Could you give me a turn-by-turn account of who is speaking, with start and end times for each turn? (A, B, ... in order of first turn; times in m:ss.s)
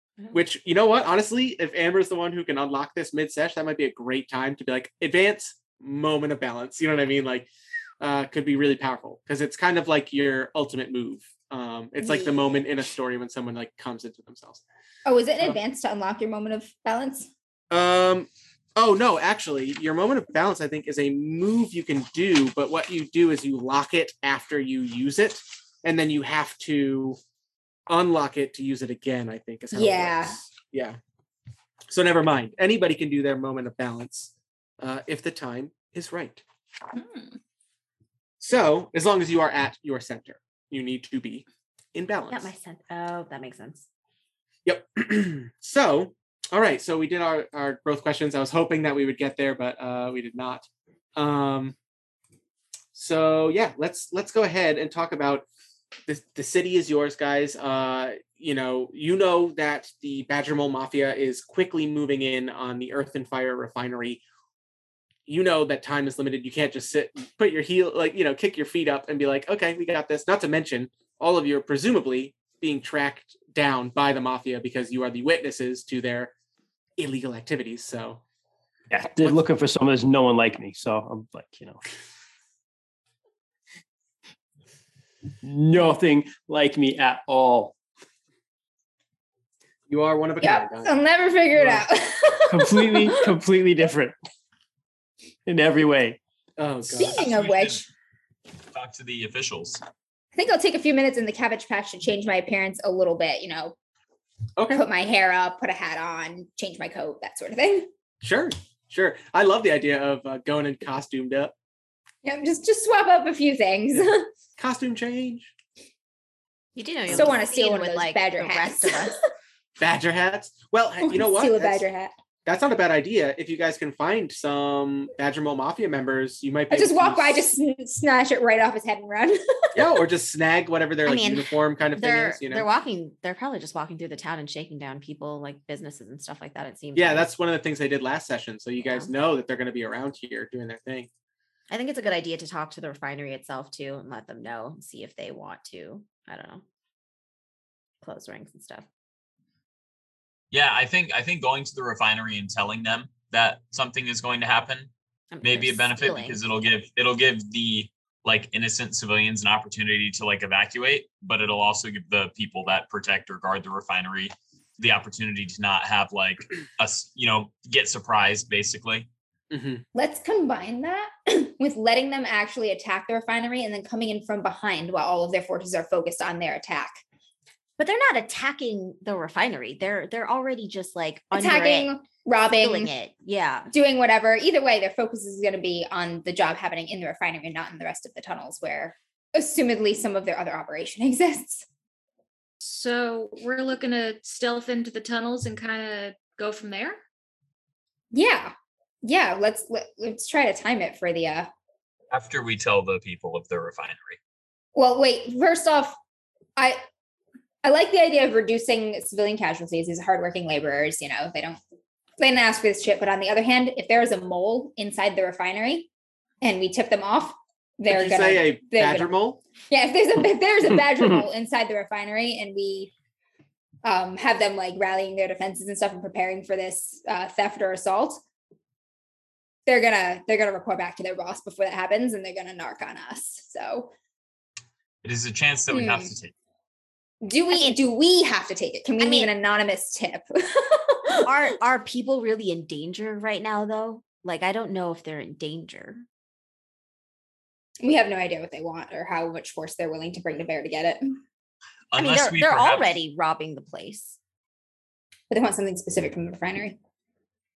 0:00.3-0:14.6 A
0:12.0-0:12.3 B
0:15.0-0:17.3 B
0:17.7-0:27.2 A
0:27.9-0:31.0 A
0:29.7-0:30.4 B
0:31.9-0:36.4 A
0:38.4-0:42.5 A
0:42.2-0:43.8 C
0:44.6-0:51.7 A
0:52.9-0:55.4 A
0:56.1-1:04.2 A
1:05.3-1:16.3 A
1:17.0-1:18.2 A
1:18.9-1:21.8 D
1:25.4-1:27.7 D
1:29.9-1:30.9 A
1:30.4-1:33.3 B
1:31.6-1:31.8 A
1:32.5-1:34.1 D
1:35.4-1:36.2 D
1:36.6-1:37.3 A
1:36.9-1:37.9 B
1:37.0-1:37.8 E
1:38.7-1:39.8 E
1:40.3-1:43.7 B
1:44.6-1:44.8 A
1:44.7-1:47.9 B
1:48.2-1:51.5 A
1:52.2-1:54.3 B
1:53.9-1:55.5 A
1:56.8-1:59.2 C
1:57.1-1:59.2 B
1:59.8-2:01.8 A
2:01.0-2:02.1 B
2:02.4-2:07.4 A
2:06.7-2:09.8 B
2:09.7-2:12.7 A
2:11.0-2:17.3 C
2:16.9-2:21.1 A
2:18.8-2:19.1 C
2:21.7-2:26.6 C
2:28.0-2:28.8 C
2:30.5-2:34.9 E
2:35.3-2:36.4 C
2:35.4-2:49.1 E
2:49.5-2:49.8 A
2:49.9-2:57.0 B
2:57.8-3:01.9 C
3:01.3-3:02.9 B
3:02.6-3:03.7 C
3:03.7-3:11.6 B
3:12.6-3:17.0 F
3:18.1-3:18.5 B
3:19.0-3:21.5 B
3:22.1-3:24.2 E
3:24.8-3:25.9 B
3:26.6-3:26.8 B
3:27.6-3:31.6 B
3:32.2-3:35.9 B
3:36.4-3:39.1 B
3:37.9-3:39.4 A
3:39.7-3:42.9 B
3:43.8-3:48.2 B
3:49.6-3:53.9 B
3:55.0-3:56.3 E
3:55.7-3:56.1 B
3:57.2-4:01.2 B
3:57.5-3:57.8 C
3:59.0-3:59.3 C
4:01.2-4:06.0 C
4:07.8-4:11.2 B
4:11.9-4:13.0 E
4:12.0-4:14.2 C
4:15.3-4:16.8 B